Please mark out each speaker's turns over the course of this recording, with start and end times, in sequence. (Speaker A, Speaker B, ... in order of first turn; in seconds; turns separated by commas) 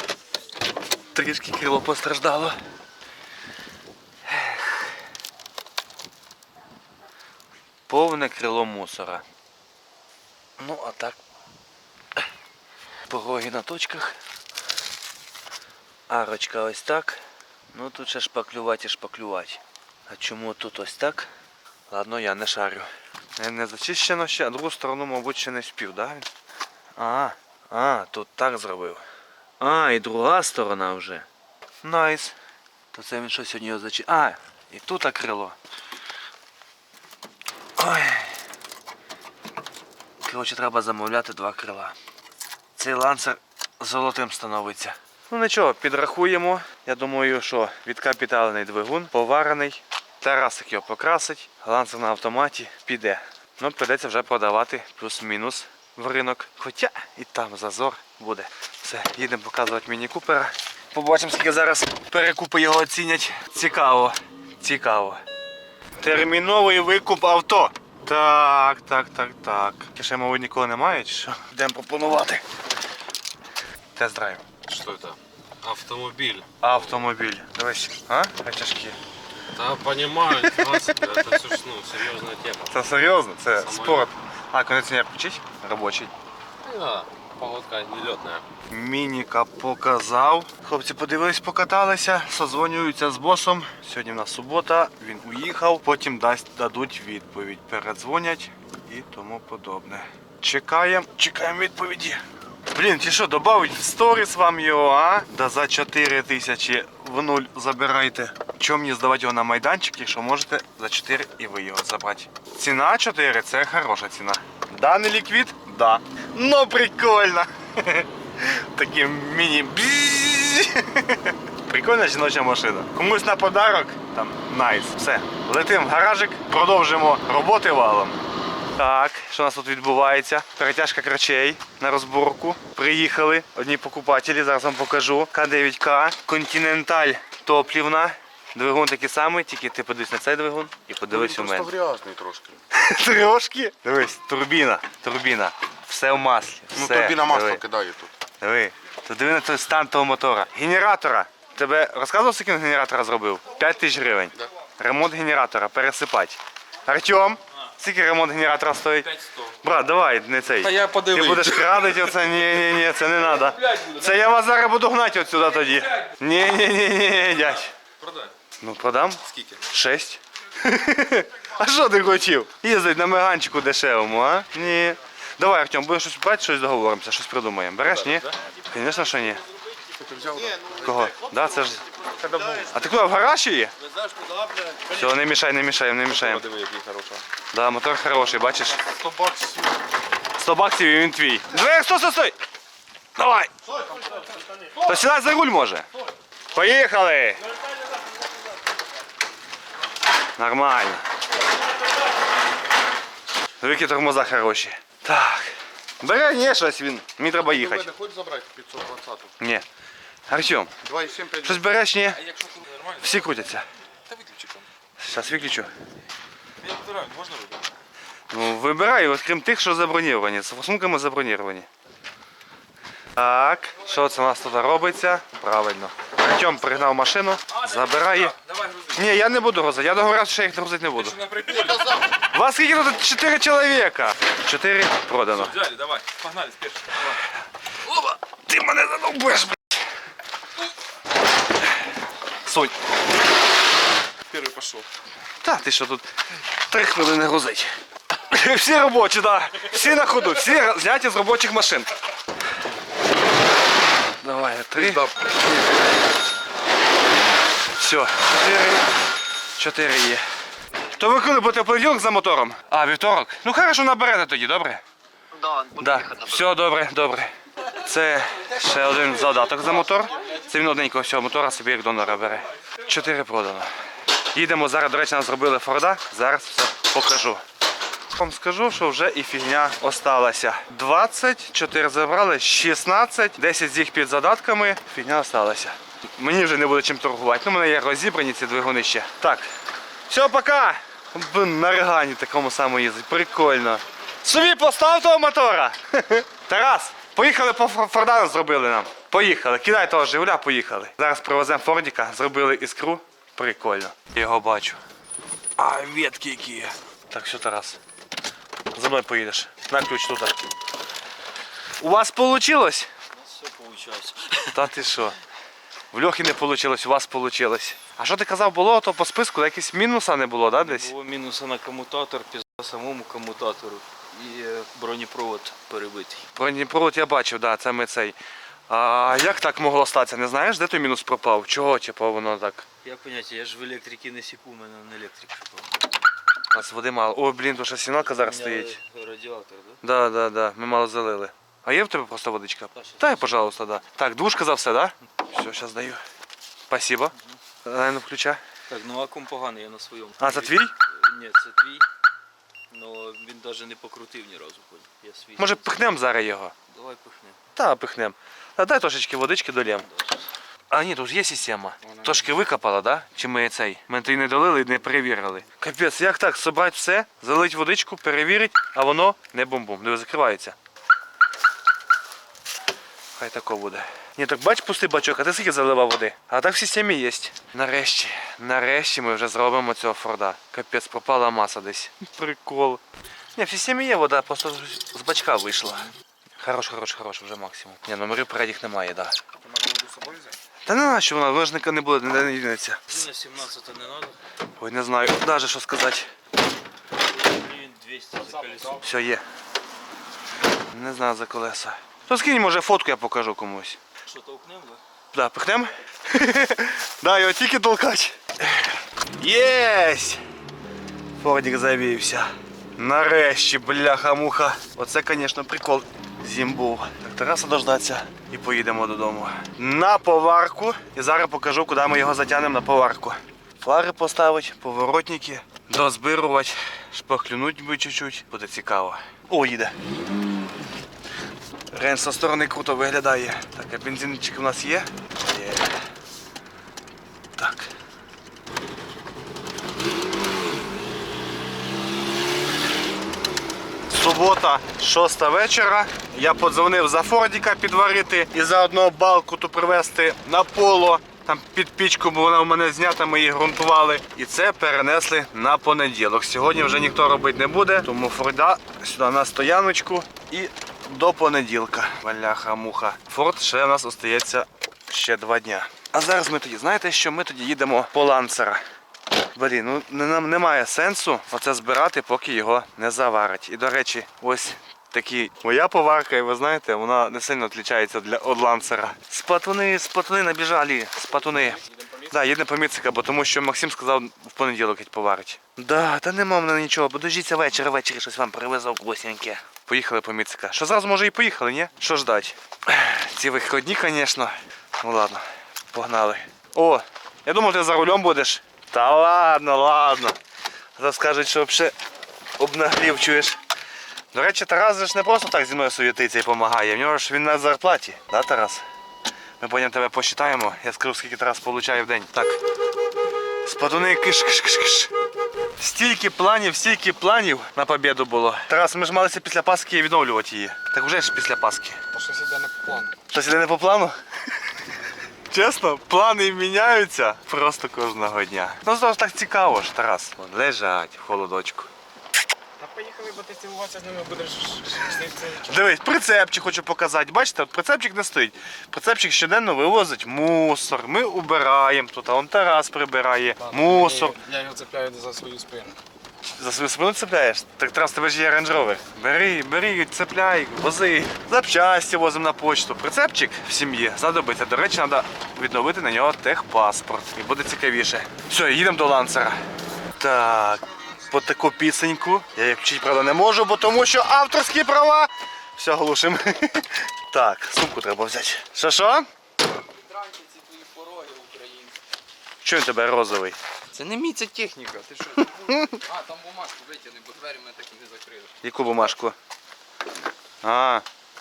Speaker A: 1.1-2.6, Speaker A: 4.2-4.8, Speaker A: 7.9-9.2, Speaker A: 10.6-11.2, Speaker A: 13.1-14.2, Speaker A: 16.1-17.2, Speaker A: 17.7-21.3, Speaker A: 21.9-26.3, Speaker A: 27.0-29.0, Speaker A: 29.6-31.2, Speaker A: 31.8-32.3, Speaker A: 32.9-35.5, Speaker A: 37.8-38.4, Speaker A: 40.2-42.0, Speaker A: 42.8-65.2, Speaker A: 66.0-72.4, Speaker A: 74.0-74.5, Speaker B: 74.7-76.5, Speaker A: 76.6-79.0, Speaker B: 79.5-82.7, Speaker A: 82.7-86.1, Speaker B: 83.6-84.1, Speaker B: 86.6-88.4, Speaker A: 88.7-128.2, Speaker A: 128.8-141.7, Speaker C: 141.1-142.6, Speaker A: 142.7-147.6, Speaker C: 146.7-148.1, Speaker A: 148.4-159.1, Speaker D: 159.1-159.4, Speaker A: 159.6-167.7, Speaker D: 160.6-162.1, Speaker D: 163.6-164.1, Speaker B: 168.0-168.3, Speaker A: 168.6-179.4, Speaker B: 178.0-178.3, Speaker B: 180.0-180.5, Speaker C: 180.3-182.8, Speaker A: 180.8-181.8, Speaker D: 182.3-182.6, Speaker A: 182.7-183.7, Speaker B: 184.1-184.8, Speaker A: 184.9-186.4, Speaker B: 186.2-187.2, Speaker A: 187.5-188.8, Speaker C: 188.8-189.8, Speaker A: 190.4-192.3, Speaker A: 193.2-193.5, Speaker C: 193.7-194.8, Speaker A: 194.8-195.9, Speaker A: 196.5-197.4, Speaker A: 200.4-201.0, Speaker A: 203.6-207.9, Speaker C: 207.4-209.3, Speaker A: 209.4-209.6, Speaker A: 210.3-210.7, Speaker C: 210.8-211.6, Speaker A: 211.4-212.2, Speaker D: 212.2-212.9, Speaker A: 213.0-213.7, Speaker B: 214.1-214.6, Speaker A: 215.0-215.7, Speaker D: 216.6-217.6, Speaker A: 218.3-221.7, Speaker A: 223.2-228.3, Speaker D: 227.7-228.9, Speaker A: 228.9-231.2, Speaker D: 231.3-231.8, Speaker A: 232.2-235.6, Speaker D: 235.4-237.1, Speaker A: 237.9-239.7, Speaker A: 242.4-242.7, Speaker B: 244.3-244.8, Speaker A: 245.4-246.1, Speaker A: 246.7-251.9, Speaker A: 254.2-255.1, Speaker A: 257.8-258.9, Speaker A: 259.6-260.2, Speaker A: 260.9-264.8, Speaker A: 265.7-273.7, Speaker A: 274.3-277.4, Speaker A: 278.1-289.5, Speaker A: 290.1-304.8, Speaker A: 305.6-307.8, Speaker A: 308.7-310.4, Speaker A: 311.8-312.9, Speaker D: 313.1-314.6, Speaker A: 314.5-315.2, Speaker A: 315.9-320.9, Speaker D: 320.6-326.3, Speaker A: 326.4-328.2, Speaker A: 328.7-332.6, Speaker D: 332.8-335.9, Speaker A: 336.5-338.8, Speaker D: 338.1-339.8, Speaker A: 339.8-346.0, Speaker D: 342.7-343.4, Speaker A: 346.7-347.1, Speaker A: 347.6-348.4, Speaker D: 348.7-351.9, Speaker A: 350.2-350.7, Speaker D: 352.7-355.9, Speaker A: 355.4-356.5, Speaker D: 356.7-357.4, Speaker A: 357.6-359.9, Speaker D: 359.8-360.3, Speaker A: 360.7-370.6, Speaker A: 373.2-382.8, Speaker A: 383.3-385.9, Speaker A: 386.4-389.1, Speaker C: 389.4-390.3, Speaker A: 390.6-393.1, Speaker D: 392.9-394.2, Speaker A: 394.6-396.1, Speaker D: 397.0-398.9, Speaker C: 398.3-398.6, Speaker A: 398.8-399.2, Speaker A: 400.7-403.8, Speaker D: 404.1-404.8, Speaker A: 405.1-410.2, Speaker A: 411.2-429.8, Speaker A: 431.7-435.7, Speaker A: 437.4-437.7, Speaker A: 443.9-468.6, Speaker A: 469.3-500.2, Speaker A: 500.8-501.7, Speaker A: 502.4-503.4, Speaker A: 504.1-508.6, Speaker A: 509.4-512.4, Speaker A: 513.4-514.9, Speaker A: 515.6-521.8, Speaker C: 522.0-522.9, Speaker A: 523.1-524.0, Speaker A: 525.3-531.7, Speaker C: 532.6-535.1, Speaker A: 535.2-544.2, Speaker C: 544.2-545.7, Speaker A: 546.4-559.4, Speaker A: 560.0-569.1, Speaker E: 569.6-571.8, Speaker A: 572.4-573.4, Speaker E: 573.7-578.3, Speaker A: 575.2-575.8, Speaker A: 578.4-579.1, Speaker A: 580.4-580.8